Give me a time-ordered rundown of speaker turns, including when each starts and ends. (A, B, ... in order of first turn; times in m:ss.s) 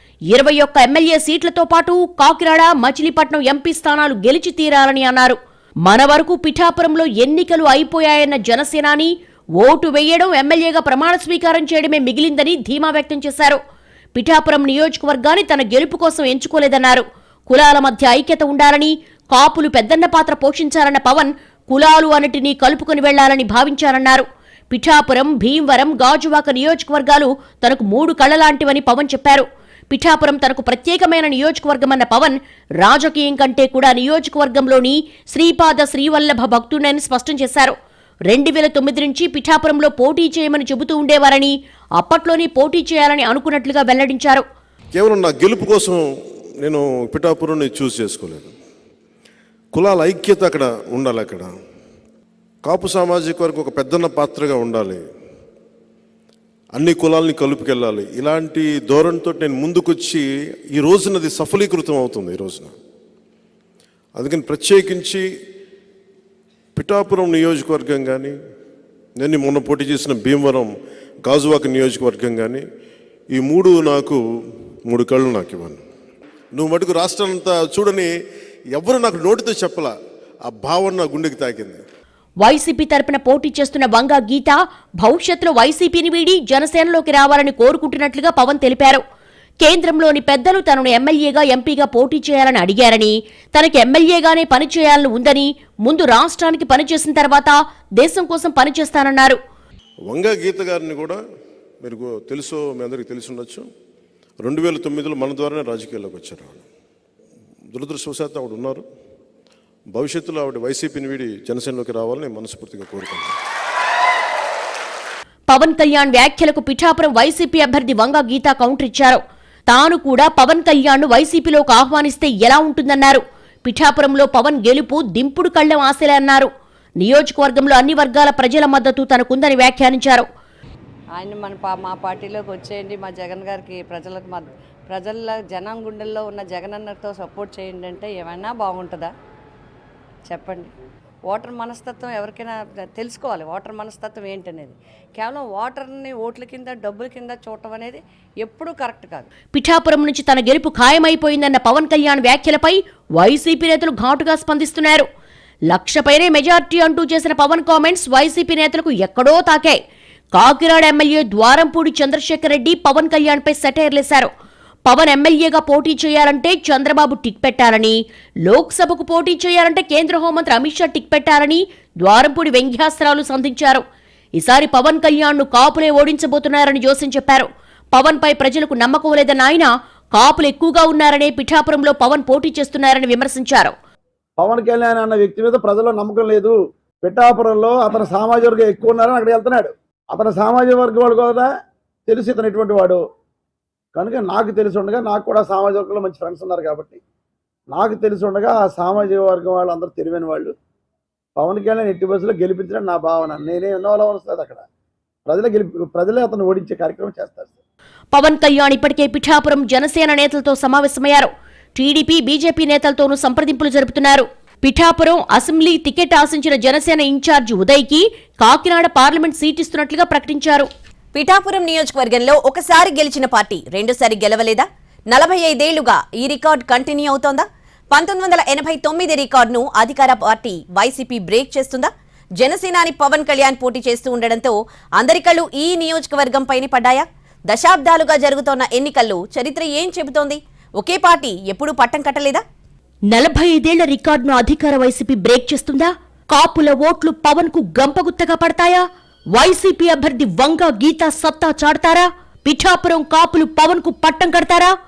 0:00.3-0:13.6 A
0:14.2-0:37.8 A
0:38.3-0:44.4 A
0:45.0-0:46.0 B
0:46.6-0:48.5 B
0:49.7-0:51.5 B
0:52.7-0:55.0 B
0:56.8-1:00.2 B
1:00.8-1:02.7 B
1:04.2-1:05.3 B
1:06.8-1:08.4 B
1:09.2-1:10.7 B
1:11.3-1:12.6 B
1:13.3-1:14.2 B
1:14.9-1:15.8 B
1:16.6-1:18.1 B
1:18.8-1:19.9 B
1:20.5-1:21.8 B
1:22.4-1:29.0 A
1:29.6-1:39.4 A
1:40.1-1:41.2 B
1:41.8-1:43.7 B
1:44.4-1:46.6 B
1:47.7-1:48.9 B
1:50.0-1:53.4 B
1:55.5-2:06.5 A
2:07.0-2:10.2 A
2:11.2-2:19.1 C
2:20.3-2:20.7 C
2:21.3-2:29.3 C
2:29.5-2:35.1 A
2:35.7-2:39.8 A
2:40.3-2:44.3 A
2:44.9-2:53.8 A
2:54.4-3:03.7 A
3:04.4-3:11.5 D
3:12.1-3:13.0 D
3:14.0-3:17.0 D
3:17.7-3:20.5 D
3:21.4-3:24.6 D
3:25.3-3:27.5 D
3:28.1-3:40.7 A
3:41.3-3:44.6 E
3:45.3-3:47.4 E
3:48.0-3:51.8 E
3:52.6-3:54.5 E
3:55.2-3:57.0 E
3:57.6-4:00.4 E
4:00.9-4:02.2 E
4:03.1-4:14.8 A